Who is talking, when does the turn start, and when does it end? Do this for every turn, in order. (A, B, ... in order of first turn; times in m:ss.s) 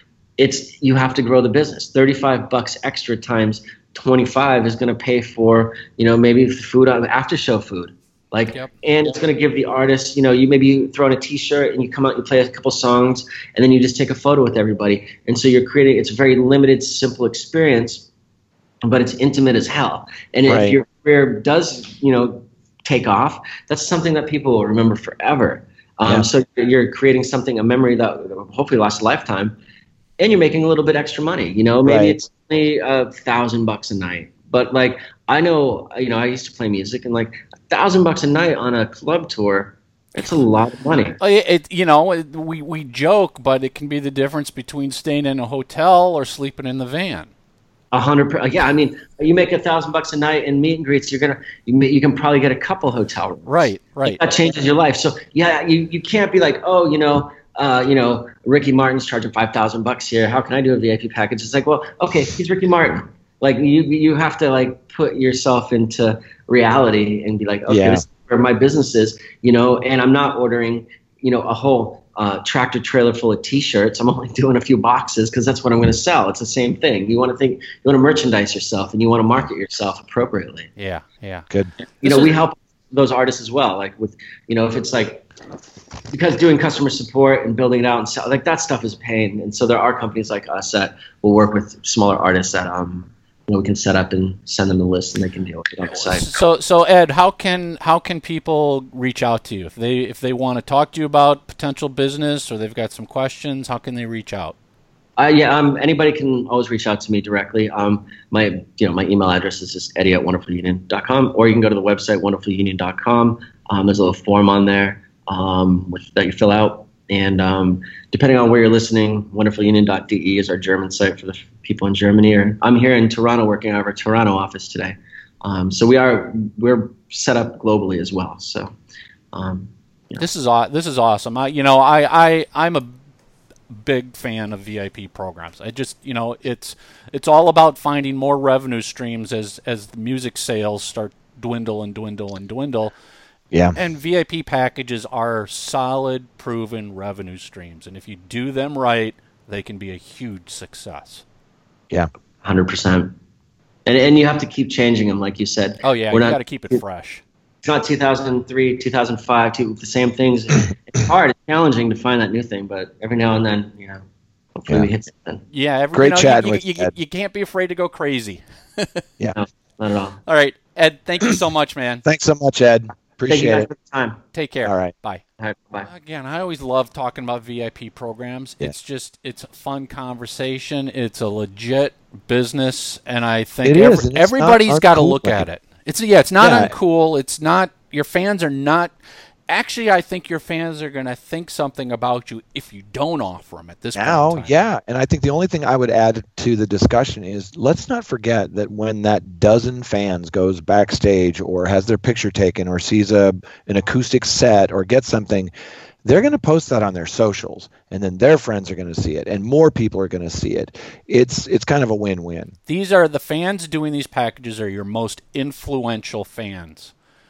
0:00.4-0:18.1 A
0:18.8-0:29.6 A
0:20.5-0:20.8 B
0:30.2-0:41.2 A
0:31.8-0:32.2 B
0:41.2-0:47.3 C
0:47.9-1:20.7 A
0:53.4-0:54.2 C
1:07.7-1:08.0 B
1:20.8-1:21.5 C
1:22.0-1:25.2 A
1:22.0-1:22.3 C
1:26.1-1:36.3 A
1:35.9-1:44.6 C
1:45.2-2:08.7 A
2:09.3-2:10.2 A
2:10.2-2:12.9 C
2:13.7-2:22.9 C
2:23.7-2:31.2 C
2:32.4-2:33.1 A
2:33.8-2:36.8 A
2:35.8-2:37.2 C
2:37.6-2:44.0 A
2:44.6-2:45.4 A
2:45.5-2:49.0 C
2:45.9-2:46.9 B
2:49.3-2:50.2 A
2:50.2-2:52.0 C
2:52.0-2:53.7 B
2:53.3-2:54.2 A
2:54.3-2:55.2 C
2:54.6-2:54.9 B
2:55.4-2:55.9 A
2:55.8-3:08.9 C
3:03.6-3:05.4 B
3:06.4-3:06.7 B
3:09.5-3:14.5 C
3:14.0-3:25.5 B
3:26.0-3:32.5 B
3:32.7-3:36.9 C